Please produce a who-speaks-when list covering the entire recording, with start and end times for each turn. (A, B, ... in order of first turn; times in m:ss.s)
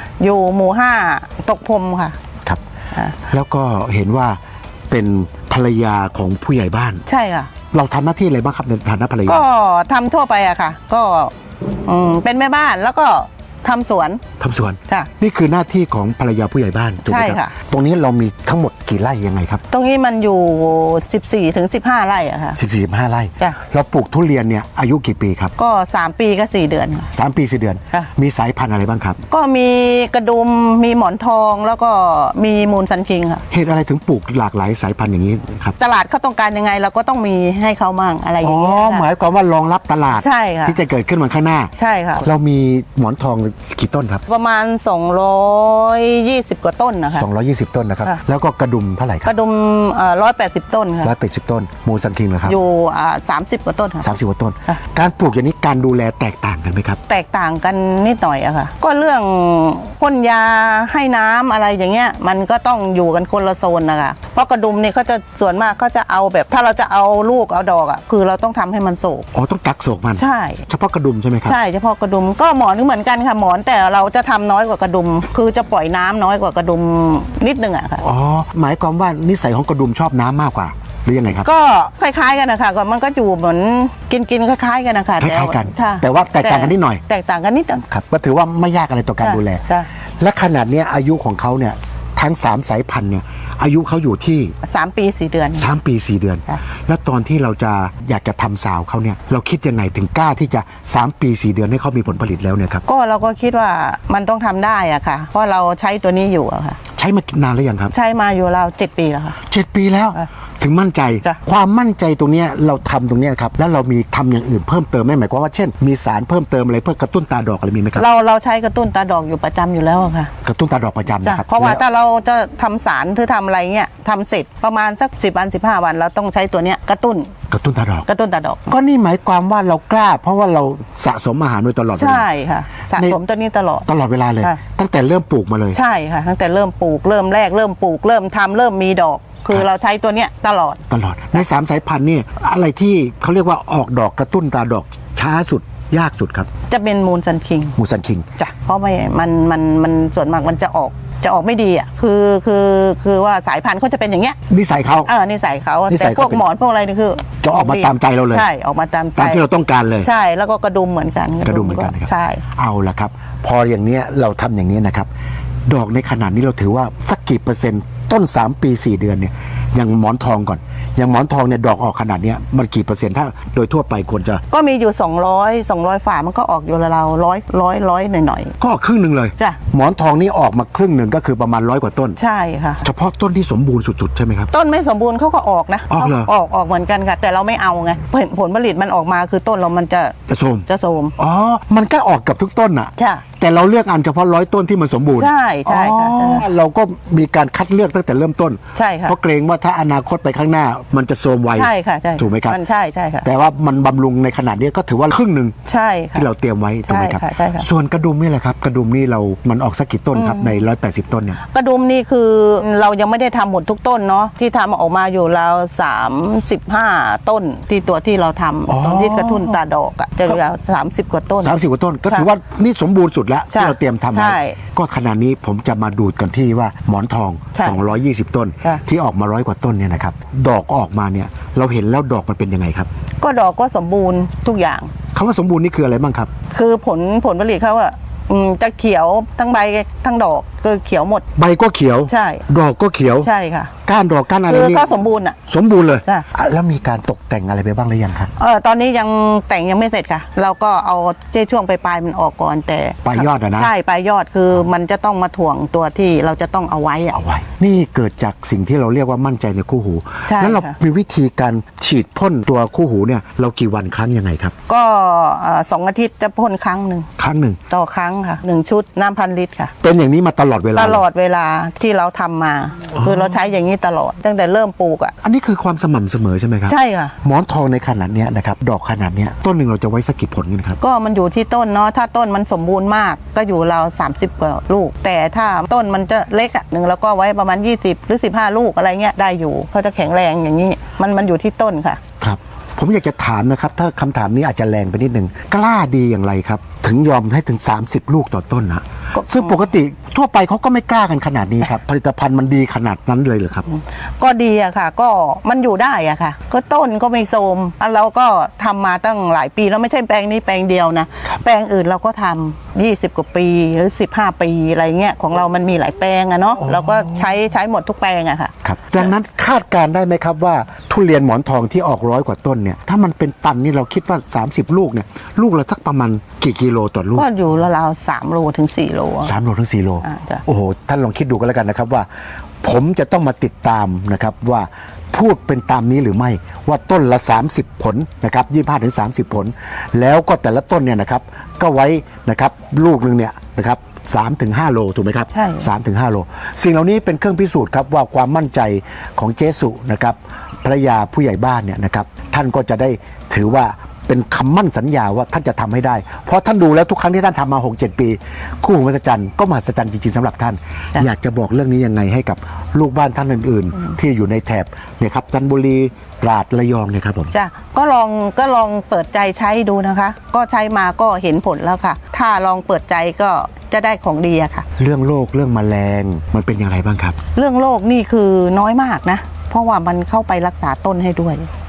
0:00.2-0:02.2 A
0:03.2-0:04.4 B
0:04.9-0:07.0 B
0:07.1-0:07.5 A
0:07.7-0:09.4 B
0:09.2-0:11.3 A
0:11.8-0:14.2 A
0:14.4-0:19.6 B
0:17.0-0:17.5 A
0:19.7-0:22.6 A
0:22.5-0:25.5 B
0:25.6-0:27.1 A
0:27.1-0:29.2 B
0:29.3-0:33.4 A
0:33.5-0:35.8 B
0:35.8-0:39.0 A
0:38.4-0:44.2 B
0:40.1-0:40.8 A
0:41.8-0:42.2 A
0:44.3-0:47.2 A
0:47.1-0:49.3 B
0:49.2-0:51.1 A
0:51.0-0:52.6 B
0:52.4-0:54.1 A
0:54.0-0:57.0 B
0:57.1-1:09.3 A
1:09.3-1:11.6 B
1:10.1-1:10.6 A
1:11.4-1:18.0 A
1:18.0-1:21.5 B
1:21.4-1:27.8 A
1:25.2-1:27.0 B
1:27.9-1:29.6 B
1:29.2-1:29.9 A
1:30.2-1:34.5 B
1:34.6-1:35.7 A
1:35.5-1:42.8 B
1:42.8-1:46.8 A
1:46.9-1:47.9 B
1:47.9-1:49.4 A
1:49.4-1:58.0 B
1:58.0-2:00.3 A
2:00.4-2:01.8 B
2:01.2-2:07.3 A
2:07.5-2:08.1 B
2:08.0-2:08.7 A
2:08.7-2:12.2 B
2:11.9-2:13.9 A
2:13.8-2:15.8 B
2:15.7-2:20.8 A
2:20.9-2:26.5 B
2:26.7-2:27.8 A
2:27.8-2:28.3 B
2:28.4-2:34.4 A
2:34.5-2:35.1 B
2:35.0-2:39.4 A
2:35.9-2:36.4 B
2:37.4-2:38.5 B
2:39.2-2:40.1 B
2:40.0-2:42.4 A
2:41.4-2:45.1 B
2:45.7-2:54.4 B
2:54.5-2:58.5 A
2:58.6-3:02.2 B
3:02.2-3:02.8 A
3:02.8-3:04.5 B
3:04.5-3:11.1 A
3:05.9-3:06.3 B
3:10.3-3:22.6 B
3:13.0-3:13.2 A
3:15.0-3:16.5 A
3:18.8-3:19.2 A
3:21.5-3:23.2 A
3:23.2-3:25.5 B
3:25.6-3:26.3 A
3:26.1-3:31.4 B
3:26.9-3:27.7 A
3:30.1-3:30.6 A
3:31.4-3:41.5 A
3:38.7-3:39.6 B
3:41.4-3:52.9 B
3:43.5-3:44.6 A
3:53.2-3:54.9 A
3:55.1-3:56.3 B
3:56.5-4:01.2 A
4:01.4-4:03.3 B
4:02.1-4:02.4 A
4:03.2-4:03.7 A
4:03.8-4:04.9 B
4:04.5-4:05.4 A
4:05.4-4:08.3 B
4:08.4-4:17.2 A
4:13.0-4:13.7 B
4:17.1-4:24.5 B
4:20.3-4:20.7 A
4:24.7-4:27.1 A
4:27.2-4:27.6 B
4:27.7-4:29.7 A
4:29.8-4:31.0 B
4:30.7-4:35.1 A
4:35.2-4:40.8 B
4:36.7-4:37.1 A
4:40.8-4:52.0 A
4:52.2-5:03.7 B
4:59.1-4:59.6 A
5:03.7-5:19.1 A
5:16.6-5:17.2 B
5:18.6-5:27.3 B
5:27.1-5:29.3 A
5:29.2-5:32.0 B
5:30.0-5:30.4 A
5:32.6-6:07.3 B
5:45.3-5:45.7 A
6:07.3-6:14.6 A
6:14.8-6:17.2 B
6:17.4-6:21.5 A